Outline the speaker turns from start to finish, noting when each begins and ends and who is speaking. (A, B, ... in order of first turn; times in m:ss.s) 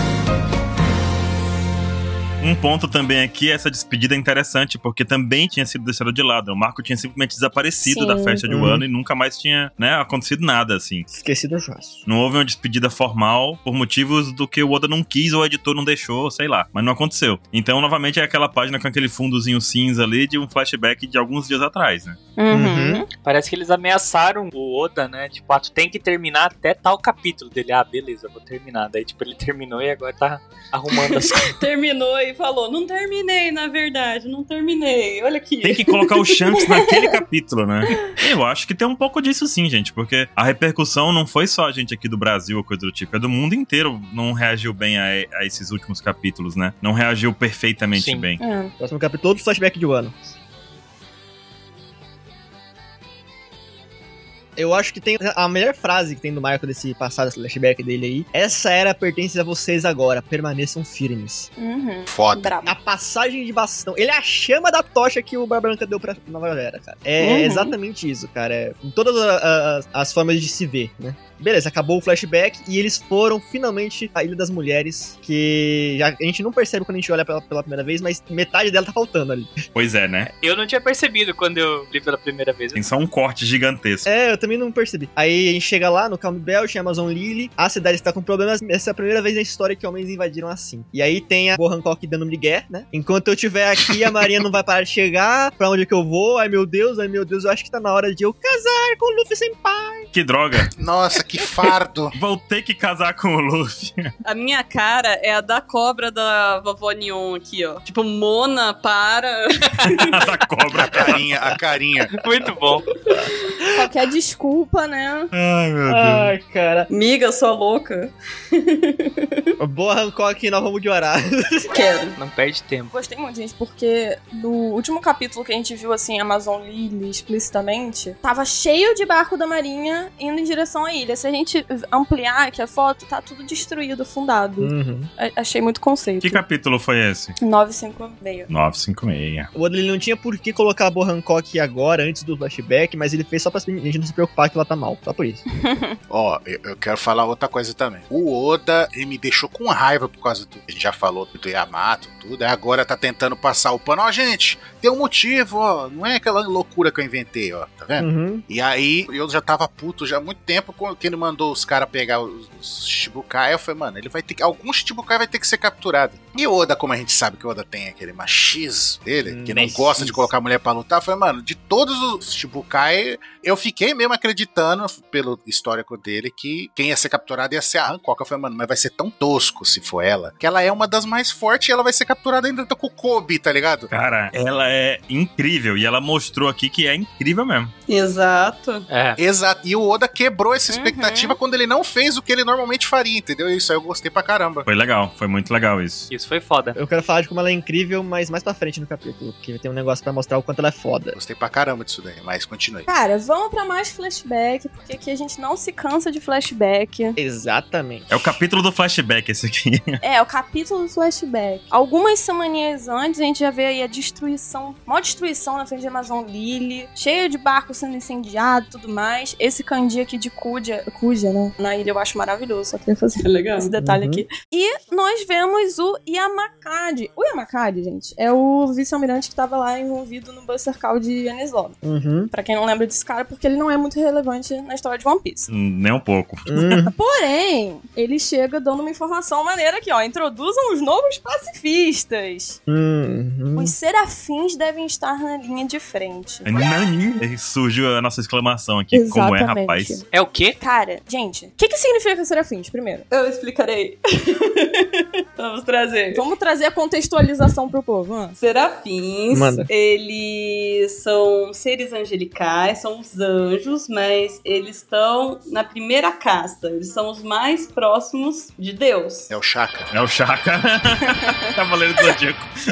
0:02.4-0:11.1 A
0:07.8-0:08.4 B
0:08.5-0:08.8 C
0:11.1-0:12.0 C
0:12.1-0:22.2 A
0:22.4-0:23.1 B
0:22.5-0:23.0 C
0:23.2-0:31.6 D
0:31.3-0:36.3 E
0:35.6-0:48.4 A
0:47.9-0:48.3 D
0:48.4-0:48.7 B
0:48.8-0:50.2 C
0:54.6-1:01.5 C
1:01.6-1:02.7 B
1:02.1-1:02.6 F
1:02.6-1:19.6 C
1:07.2-1:07.8 B
1:19.7-1:20.3 A
1:20.3-1:22.8 D
1:22.8-1:24.1 A
1:24.1-1:40.1 C
1:40.1-1:40.7 A
1:40.8-1:42.2 F
1:42.2-1:44.1 A
1:44.2-1:50.2 E
1:49.8-1:51.2 A
1:50.7-1:52.1 F
1:52.1-1:52.9 D
1:53.7-1:55.3 B
1:55.3-1:56.3 A
1:55.9-1:56.9 C
1:56.9-1:59.4 E
1:59.6-2:01.7 C
2:01.7-2:02.2 E
2:02.2-2:02.9 D
2:02.9-2:16.4 B
2:14.6-2:15.1 C
2:16.2-2:17.4 A
2:17.4-2:18.5 B
2:18.5-2:19.5 A
2:19.5-2:25.4 C
2:25.6-2:26.0 B
2:26.1-3:03.9 F
2:38.0-2:38.4 C
2:49.2-2:50.3 C
3:03.9-3:07.7 A
3:07.9-3:08.9 E
3:08.9-3:09.2 D
3:09.2-3:14.7 F
3:10.7-3:11.4 B
3:14.7-3:16.1 A
3:16.1-3:16.8 D
3:16.8-3:21.2 C
3:21.1-3:22.9 F
3:22.9-3:27.2 B
3:27.2-3:28.4 C
3:28.1-3:30.0 A
3:30.0-3:51.8 B
3:43.2-3:43.7 E
3:43.8-3:44.2 C
3:51.8-3:52.3 C
3:52.3-3:55.5 B
3:55.5-3:56.8 A
3:56.5-3:56.9 C
3:57.0-4:02.6 B
4:02.7-4:03.8 C
4:03.6-4:06.5 B
4:06.4-4:10.0 A
4:08.9-4:13.1 B
4:10.1-4:10.6 D
4:13.1-4:16.2 E
4:16.1-4:18.4 B
4:18.4-4:29.3 E
4:19.3-4:19.7 C
4:29.3-4:29.9 F
4:29.9-4:32.5 A
4:31.1-4:31.4 B